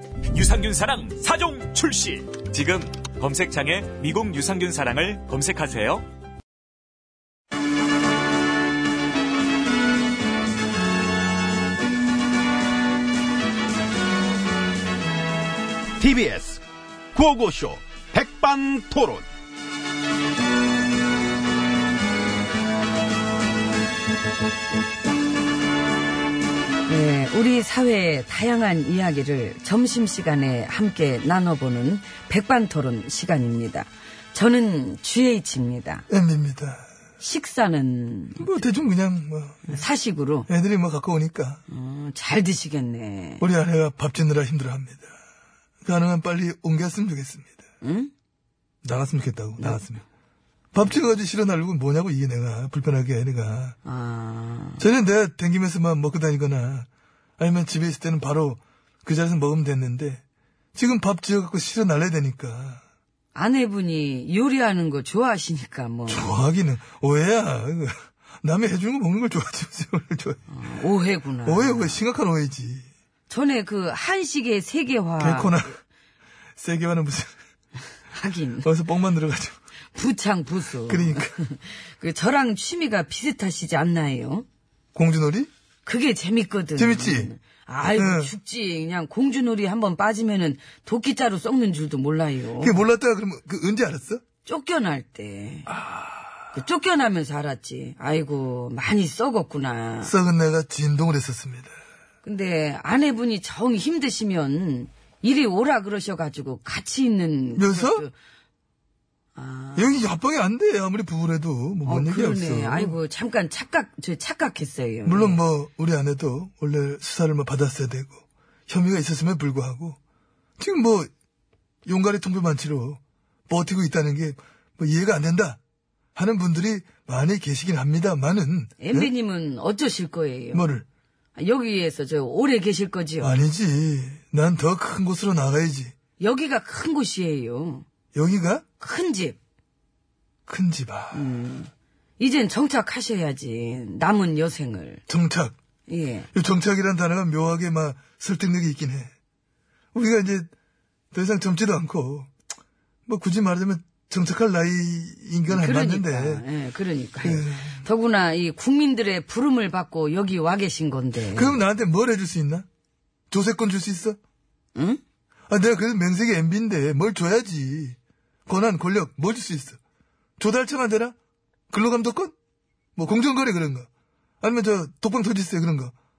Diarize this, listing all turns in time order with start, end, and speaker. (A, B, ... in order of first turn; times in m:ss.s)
0:00.3-0:06.0 A
0:16.0-0:16.6 B
0:17.1-0:19.3 B
0:26.9-0:36.0 C
0:36.1-0:36.9 D
0:37.2-0:38.5 C
0:38.4-0:39.8 D
0:39.7-0:40.5 C
0:40.5-0:41.6 D
0:41.7-0:43.4 C
0:43.4-0:45.1 D
0:45.8-0:47.6 D
0:47.8-0:48.1 C
0:48.8-0:50.0 D
0:49.6-0:49.9 C
0:50.7-0:53.8 D
0:53.8-0:54.8 C
0:54.8-0:56.9 D
0:57.4-1:00.2 D
1:00.8-1:02.8 D
1:03.3-1:06.3 C
1:06.1-1:10.4 D
1:10.5-1:12.0 C
1:11.4-1:12.9 D
1:13.3-1:15.6 C
1:15.2-1:15.8 D
1:16.6-1:17.3 D
1:18.1-1:18.7 C
1:18.6-1:19.6 D
1:20.0-1:24.5 C
1:20.9-1:21.4 D
1:25.0-1:25.5 D
1:25.8-1:32.8 C
1:26.8-1:27.3 D
1:27.9-1:28.3 D
1:32.6-1:34.2 D
1:34.4-1:35.7 C
1:36.5-1:40.1 C
1:40.0-1:41.7 D
1:42.2-1:48.1 C
1:47.6-1:48.1 D
1:49.4-1:50.0 C
1:49.8-1:53.0 D
1:51.8-1:55.4 C
1:55.0-2:00.0 D
2:00.6-2:01.1 D
2:01.9-2:05.6 D
2:06.2-2:09.1 D
2:08.8-2:10.6 C
2:10.5-2:10.8 D
2:11.4-2:13.4 C
2:13.2-2:15.9 D
2:16.2-2:17.9 C
2:18.2-2:18.6 D
2:18.8-2:19.4 C
2:20.5-2:21.3 D
2:21.1-2:25.0 C
2:25.1-2:25.6 D
2:25.9-2:26.3 C
2:26.3-2:29.1 D
2:29.9-2:30.5 D
2:31.1-2:32.3 D
2:33.1-2:36.4 D
2:35.5-2:41.6 C
2:37.2-2:37.8 D
2:41.3-2:42.7 D
2:43.3-2:44.2 D
2:44.8-2:45.0 C
2:45.5-2:49.8 D
2:50.4-2:51.2 D
2:51.7-2:52.3 D
2:53.0-2:53.9 D
2:54.4-2:55.9 D